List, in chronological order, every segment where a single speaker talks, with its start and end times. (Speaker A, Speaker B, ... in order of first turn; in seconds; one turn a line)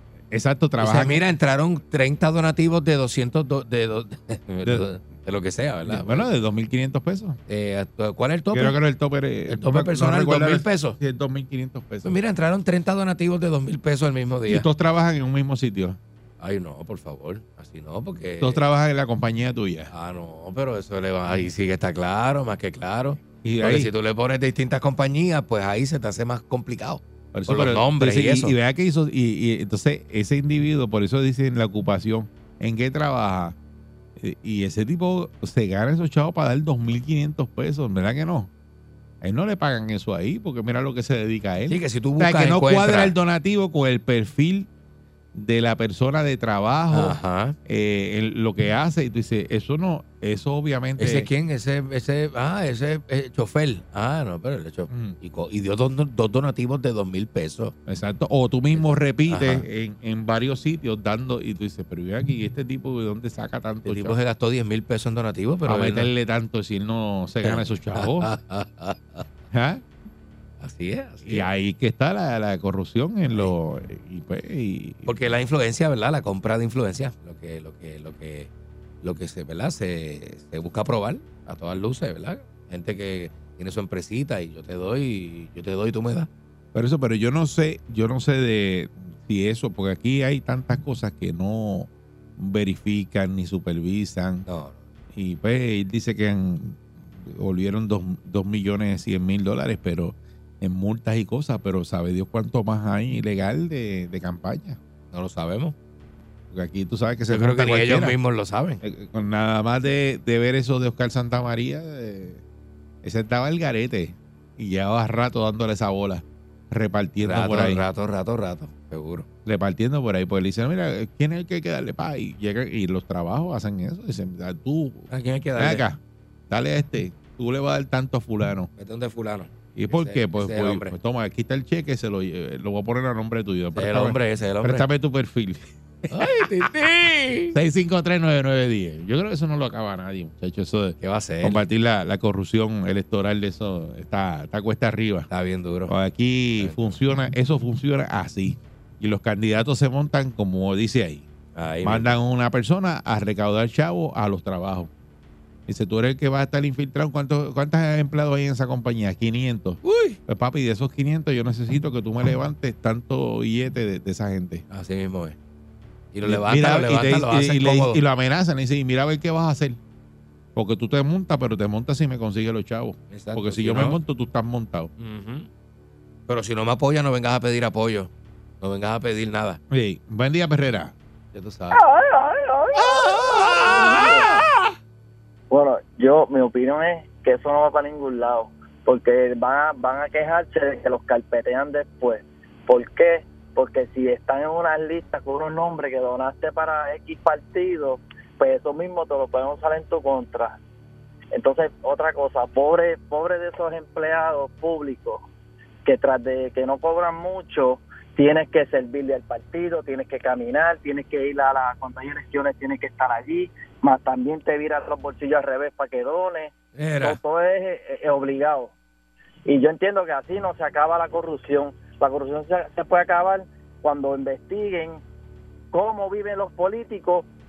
Speaker A: 0.3-1.2
Speaker B: 0.8-6.3
Speaker A: 5.8-7.4
Speaker B: 7.5-8.8
Speaker A: 8.5-12.2
Speaker B: 9.5-11.0
Speaker B: 12.0-14.7
Speaker A: 14.5-16.0
Speaker B: 16.4-18.6
Speaker A: 18.4-19.9
Speaker B: 19.9-28.5
Speaker A: 23.4-23.9
Speaker A: 27.3-33.5
Speaker A: 34.2-38.5
Speaker A: 39.2-44.7
Speaker B: 41.7-43.1
Speaker A: 45.3-51.3
Speaker B: 46.9-47.5
Speaker B: 51.0-57.7
Speaker A: 54.9-55.1
Speaker A: 57.9-64.2
Speaker B: 58.7-59.6
Speaker B: 63.9-66.1
Speaker A: 65.7-68.3
Speaker B: 67.4-69.2
Speaker A: 69.5-69.8
Speaker B: 70.6-71.5
Speaker A: 71.2-75.1
Speaker B: 75.0-78.5
Speaker B: 79.0-86.3
Speaker A: 86.7-94.4
Speaker B: 94.5-94.8
Speaker A: 95.1-104.8
Speaker B: 105.1-105.7
Speaker A: 106.5-108.2
Speaker B: 107.3-108.8
Speaker A: 108.8-112.4
Speaker A: 113.0-117.8
Speaker B: 117.2-119.2
Speaker A: 119.4-126.0
Speaker B: 125.1-125.8
Speaker A: 126.5-128.7
Speaker B: 128.8-130.9
Speaker A: 129.8-136.3
Speaker B: 133.7-134.8
Speaker B: 136.1-137.5
Speaker A: 137.5-145.3
Speaker B: 141.0-141.6
Speaker B: 145.3-145.9
Speaker A: 145.9-151.2
Speaker B: 146.6-146.9
Speaker B: 151.5-152.1
Speaker A: 151.8-154.9
Speaker A: 155.7-164.6
Speaker B: 159.8-160.2
Speaker B: 164.7-165.3
Speaker B: 166.1-168.0
Speaker A: 166.2-169.8
Speaker A: 170.5-174.9
Speaker B: 173.1-174.0
Speaker B: 175.0-175.5
Speaker B: 176.3-178.1
Speaker B: 178.6-179.6
Speaker A: 179.7-180.9
Speaker B: 181.3-181.8
Speaker C: 181.7-184.3
Speaker C: 185.5-200.6
Speaker C: 201.3-205.2
Speaker C: 205.8-218.7
Speaker B: 216.8-217.2
Speaker C: 219.4-225.0
Speaker C: 225.7-227.3